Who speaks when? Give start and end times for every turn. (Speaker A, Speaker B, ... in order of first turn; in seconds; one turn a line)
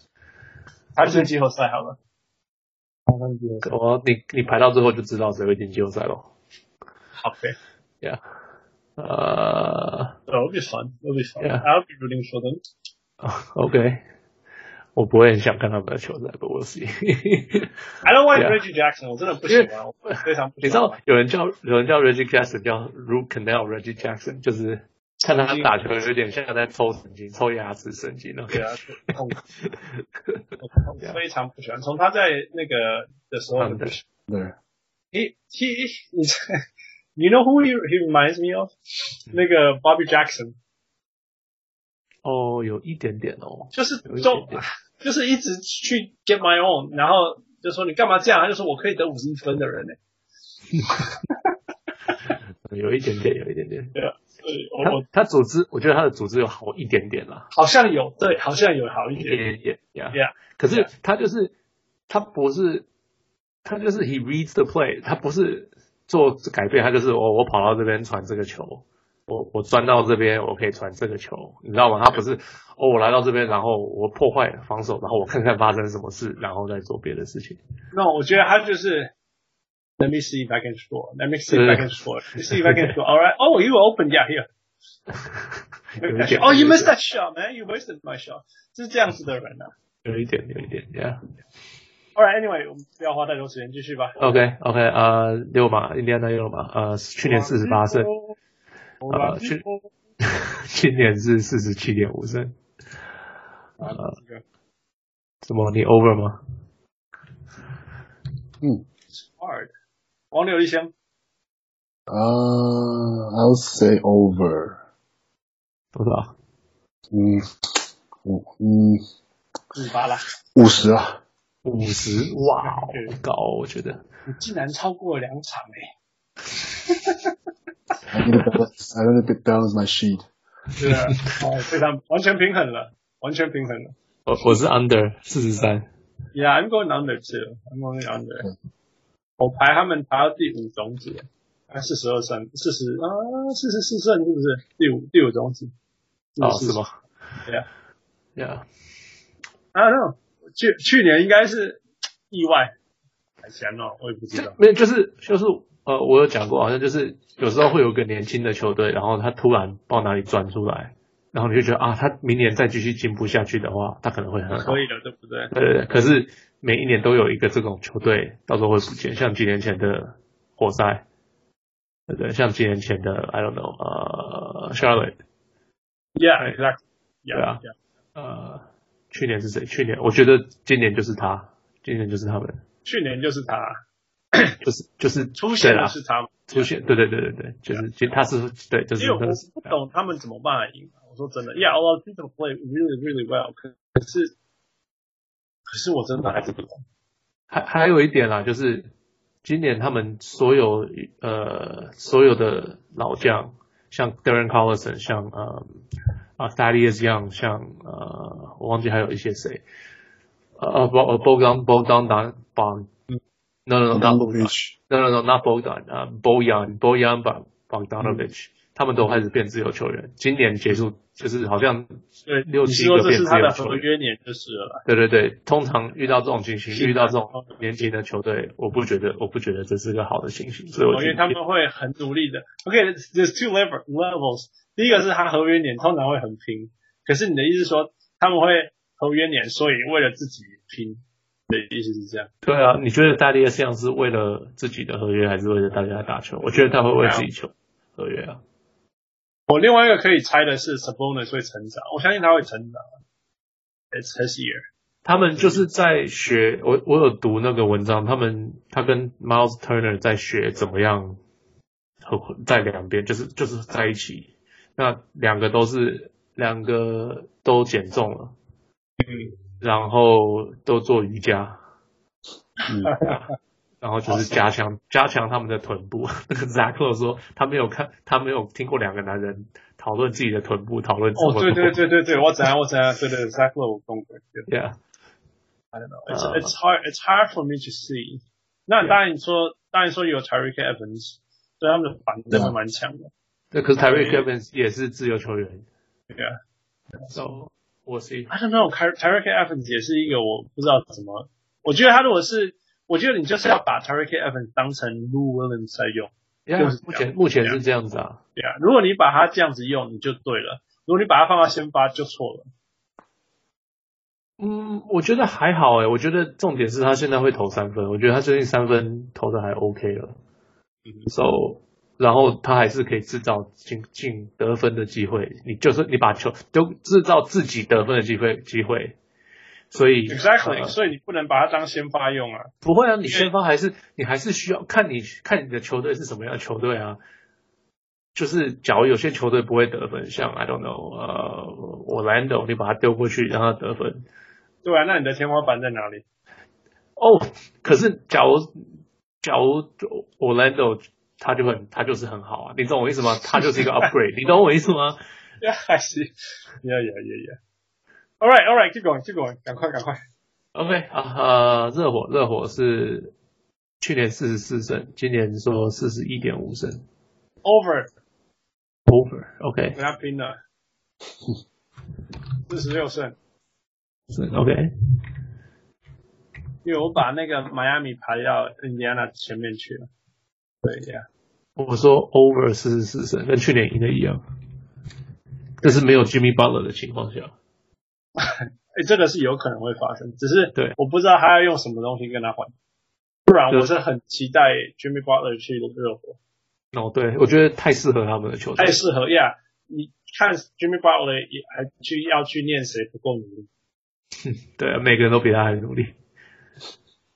Speaker A: 0.9-2.0
Speaker B: 1.0-1.3
Speaker A: 3.1-3.7
Speaker B: 3.6-6.3
Speaker A: 7.2-7.5
Speaker B: 9.0-10.1
Speaker A: 10.3-12.6
Speaker B: 11.4-11.6
Speaker B: 13.2-14.0
Speaker B: 14.9-17.7
Speaker A: 18.0-21.0
Speaker B: 18.3-18.6
Speaker B: 19.5-28.6
Speaker A: 25.3-25.7
Speaker A: 28.5-29.4
Speaker B: 29.6-30.4
Speaker A: 30.6-34.0
Speaker B: 33.6-33.9
Speaker C: 34.3-34.5
Speaker A: 35.1-36.6
Speaker A: 37.1-40.5
Speaker B: 42.2-44.6
Speaker A: 43.7-50.0
Speaker A: 50.9-51.4
Speaker B: 52.6-53.9
Speaker A: 53.9-55.0
Speaker B: 54.8-57.5
Speaker A: 57.5-59.4
Speaker B: 59.2-61.5
Speaker A: 60.1-60.9
Speaker B: 62.1-62.9
Speaker B: 63.6-77.6
Speaker A: 77.9-79.1
Speaker A: 80.0-84.5
Speaker B: 81.5-81.9
Speaker B: 82.4-83.0
Speaker B: 85.2-86.9
Speaker A: 86.0-89.7
Speaker B: 90.0-91.2
Speaker A: 92.1-94.4
Speaker B: 94.2-98.1
Speaker A: 97.2-98.4
Speaker A: 99.0-99.9
Speaker B: 99.1-99.6
Speaker B: 100.2-102.5
Speaker A: 103.8-104.4
Speaker B: 103.8-104.1
Speaker B: 105.4-106.4
Speaker A: 109.1-109.7
Speaker A: 110.3-110.9
Speaker C: 112.1-114.8
Speaker B: 115.9-116.3
Speaker C: 117.1-117.5
Speaker C: 118.2-119.0
Speaker A: 119.7-120.2
Speaker C: 120.5-121.2
Speaker B: 121.6-124.0
Speaker A: 122.6-123.1
Speaker A: 124.3-125.9
Speaker A: 126.8-127.3
Speaker C: 128.1-130.3
Speaker A: 130.8-133.9
Speaker B: 130.8-131.3
Speaker B: 134.2-135.9
Speaker A: 136.3-138.5
Speaker A: 139.4-145.7
Speaker A: 146.3-146.8
Speaker B: 146.4-147.0
Speaker B: 148.3-148.7
Speaker A: 149.7-152.7
Speaker A: 153.4-154.6
Speaker B: 154.3-164.8
Speaker A: 164.5-165.5
Speaker B: 165.5-171.0
Speaker B: 172.1-175.2
Speaker A: 176.2-177.7
Speaker B: 177.3-177.6
Speaker B: 178.1-182.6
Speaker A: 182.8-183.8
Speaker B: 184.6-185.9
Speaker A: 185.3-186.7
Speaker B: 186.5-189.8
Speaker A: 189.0-194.3
Speaker A: 195.7-196.8
Speaker B: 197.5-198.9
Speaker B: 199.4-205.8
Speaker B: 206.4-209.6
Speaker B: 210.6-212.9
Speaker B: 213.7-223.8
Speaker C: 213.9-214.7
Speaker A: 222.2-224.8
Speaker B: 224.8-231.3
Speaker A: 226.7-227.6
Speaker A: 230.9-242.3
Speaker B: 242.4-248.4
Speaker A: 247.0-247.3
Speaker A: 249.5-252.8
Speaker A: 253.9-255.7
Speaker B: 255.0-261.2
Speaker B: 262.0-268.3
Speaker A: 269.0-269.4
Speaker B: 269.6-271.6
Speaker A: 272.8-273.2
Speaker B: 273.0-273.3
Speaker B: 273.8-281.8
Speaker A: 281.2-284.5
Speaker B: 284.5-284.8
Speaker A: 285.7-293.1
Speaker B: 286.1-286.5
Speaker B: 293.5-295.6
Speaker A: 293.9-294.3
Speaker B: 297.1-298.3
Speaker A: 298.3-307.6
Speaker B: 306.5-308.2
Speaker A: 308.4-312.5
Speaker B: 314.4-320.1
Speaker A: 320.9-321.1
Speaker B: 321.1-329.0
Speaker B: 329.7-330.7
Speaker A: 330.1-332.5
Speaker B: 332.6-337.0
Speaker B: 338.1-344.1
Speaker A: 344.6-346.0
Speaker B: 347.0-348.6
Speaker B: 349.2-355.0
Speaker A: 355.4-357.4
Speaker A: 358.2-360.0
Speaker B: 360.5-363.1
Speaker B: 363.8-366.8
Speaker A: 367.4-367.9
Speaker B: 368.9-369.8
Speaker A: 369.7-370.3
Speaker A: 372.5-373.1
Speaker B: 374.1-374.7
Speaker A: 376.6-379.9
Speaker A: 380.6-381.0
Speaker B: 381.6-384.2
Speaker B: 385.6-387.3
Speaker A: 388.2-392.5
Speaker A: 393.3-396.2
Speaker B: 396.7-398.8
Speaker A: 398.6-403.5
Speaker B: 404.2-405.9